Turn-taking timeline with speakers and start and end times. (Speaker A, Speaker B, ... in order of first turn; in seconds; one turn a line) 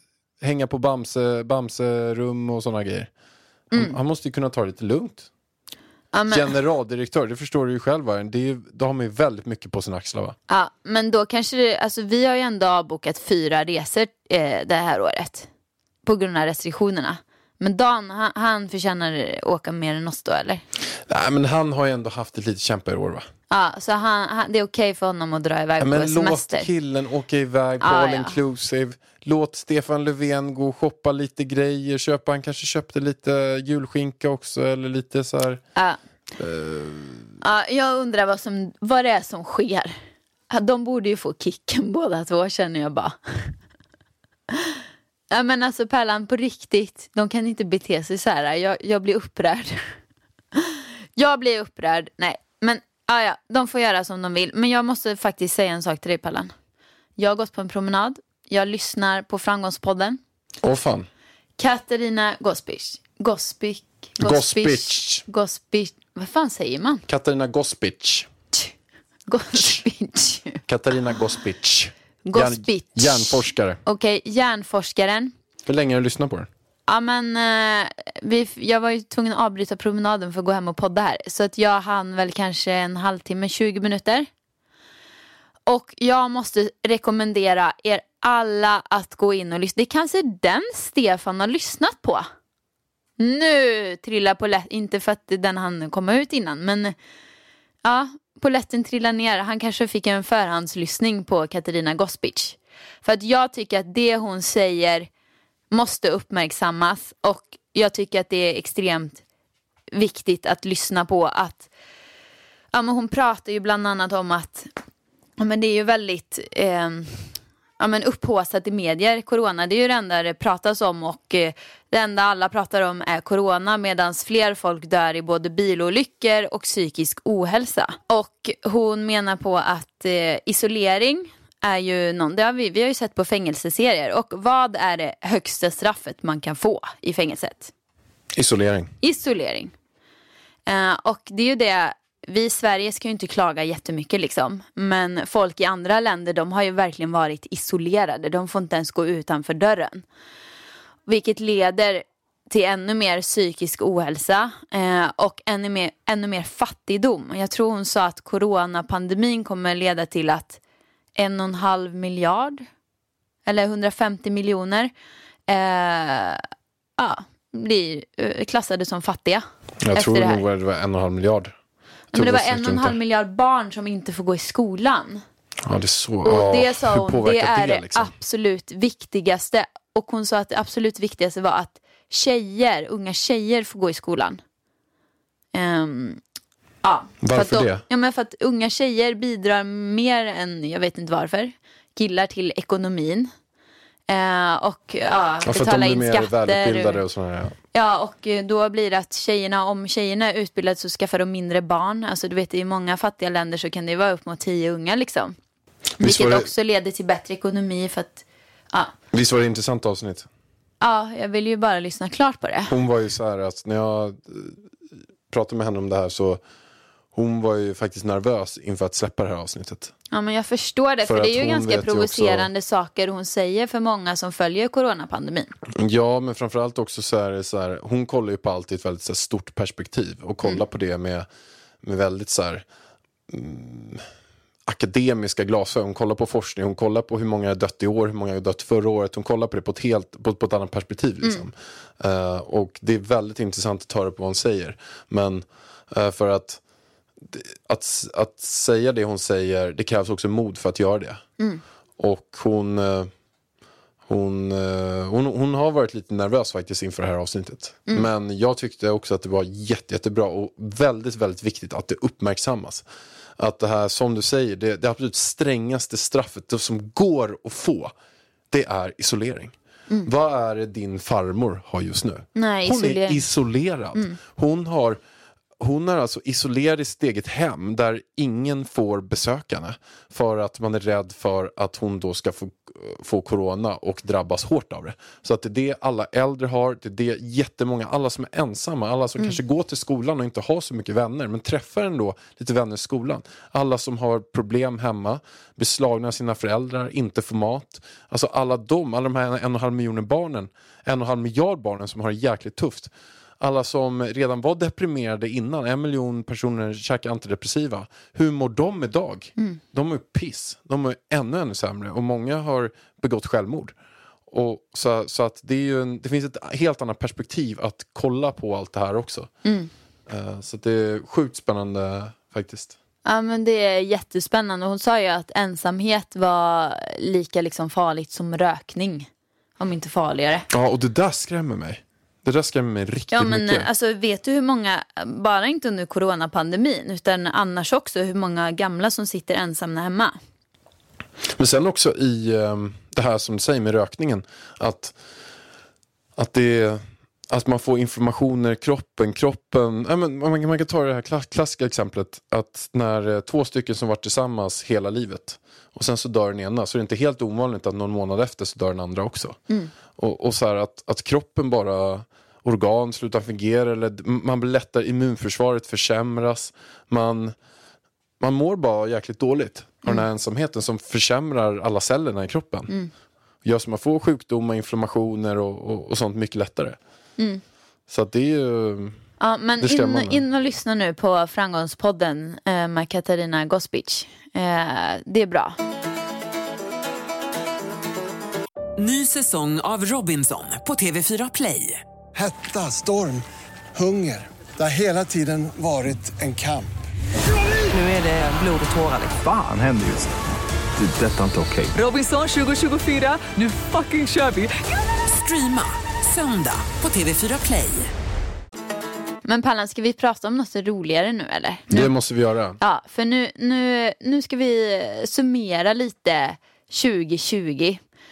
Speaker A: 0.4-3.1
Speaker A: 3.7-5.3
Speaker B: 6.1-6.5
Speaker A: 6.3-10.4
Speaker B: 10.5-15.5
Speaker B: 16.0-20.6
Speaker A: 21.0-23.3
Speaker B: 23.5-26.7
Speaker A: 25.8-35.6
Speaker B: 27.8-28.4
Speaker A: 36.4-37.3
Speaker B: 37.4-39.9
Speaker B: 40.5-43.5
Speaker B: 44.5-44.8
Speaker B: 45.3-50.0
Speaker B: 50.5-56.5
Speaker B: 57.2-60.2
Speaker A: 60.6-61.1
Speaker B: 61.6-67.0
Speaker A: 64.2-65.2
Speaker A: 67.1-68.3
Speaker B: 69.3-70.6
Speaker A: 70.7-73.8
Speaker B: 72.3-75.3
Speaker A: 75.7-76.5
Speaker B: 76.9-84.3
Speaker B: 85.7-92.3
Speaker B: 93.2-96.9
Speaker B: 97.8-105.1
Speaker B: 105.7-109.2
Speaker B: 109.9-111.7
Speaker B: 112.7-114.7
Speaker B: 115.4-137.7
Speaker A: 138.3-138.9
Speaker B: 139.0-139.7
Speaker B: 140.7-150.1
Speaker B: 151.1-160.6
Speaker B: 161.2-162.7
Speaker B: 163.5-164.9
Speaker B: 165.5-166.4
Speaker B: 167.0-170.4
Speaker A: 169.8-171.6
Speaker B: 172.1-175.2
Speaker A: 172.1-173.0
Speaker A: 175.7-178.1
Speaker B: 176.2-184.4
Speaker B: 185.5-186.2
Speaker B: 186.8-193.3
Speaker A: 187.2-187.8
Speaker B: 194.1-197.0
Speaker A: 195.4-197.6
Speaker B: 197.7-205.3
Speaker A: 206.0-206.5
Speaker B: 206.0-208.9
Speaker A: 209.1-210.3
Speaker B: 210.8-212.8
Speaker A: 212.7-214.6
Speaker A: 215.3-216.4
Speaker A: 217.1-219.9
Speaker B: 220.1-225.5
Speaker A: 221.1-222.5
Speaker A: 225.8-231.3
Speaker A: 231.8-232.7
Speaker A: 233.3-234.0
Speaker A: 234.7-246.6
Speaker A: 247.2-251.2
Speaker A: 252.0-253.1
Speaker A: 254.1-262.9
Speaker A: 263.4-267.9
Speaker A: 268.5-275.0
Speaker B: 272.4-273.2
Speaker A: 275.6-313.7
Speaker A: 314.3-319.3
Speaker B: 319.4-319.7
Speaker A: 320.1-322.8
Speaker B: 323.1-329.1
Speaker B: 329.6-330.5
Speaker A: 330.5-333.7
Speaker B: 333.1-340.1
Speaker A: 341.3-344.9
Speaker A: 346.2-359.4
Speaker A: 360.0-367.4
Speaker A: 368.2-372.7
Speaker A: 373.4-376.8
Speaker A: 377.9-379.0
Speaker B: 379.2-385.6
Speaker A: 379.6-380.2
Speaker C: 388.8-391.8
Speaker D: 392.1-396.7
Speaker C: 397.7-399.2
Speaker E: 399.1-400.1
Speaker E: 400.8-401.8
Speaker C: 401.7-407.9
Speaker B: 409.2-411.9
Speaker A: 411.7-412.6
Speaker B: 412.6-417.8